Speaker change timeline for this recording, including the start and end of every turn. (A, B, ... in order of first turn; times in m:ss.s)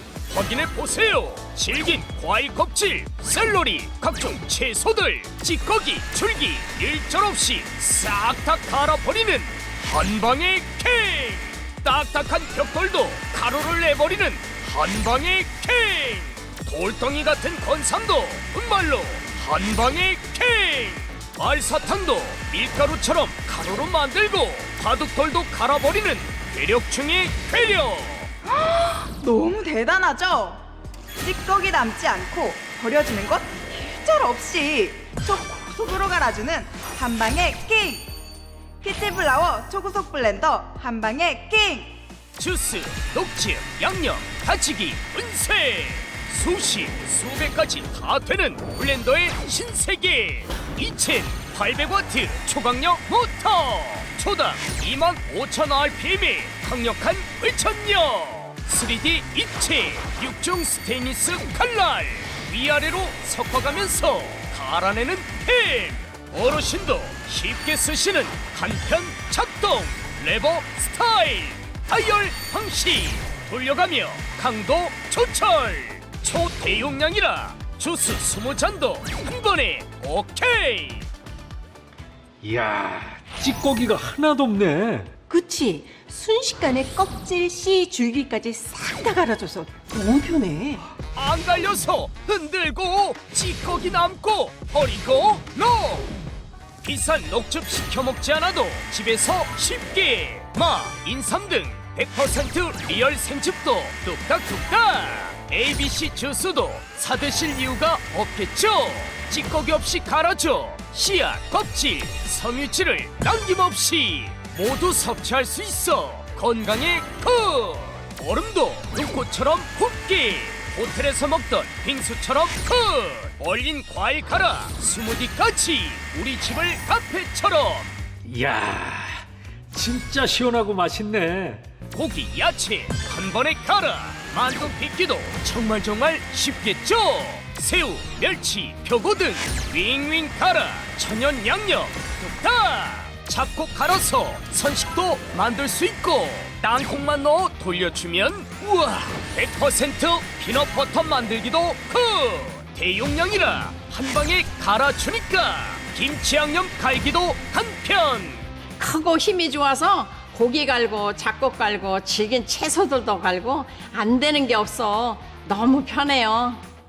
0:00.3-0:28.3 A
0:28.5-0:30.6 B
0:31.2-0:38.1 B
0:38.8-0:42.0 B
0:42.4-1:21.1 A
1:22.5-1:25.0 C
1:25.3-1:30.8 D
1:31.1-1:36.1 A
1:36.8-2:07.9 A
2:08.3-2:09.1 C
2:09.8-2:11.6 C
2:11.9-2:38.5 A
2:38.8-2:46.6 E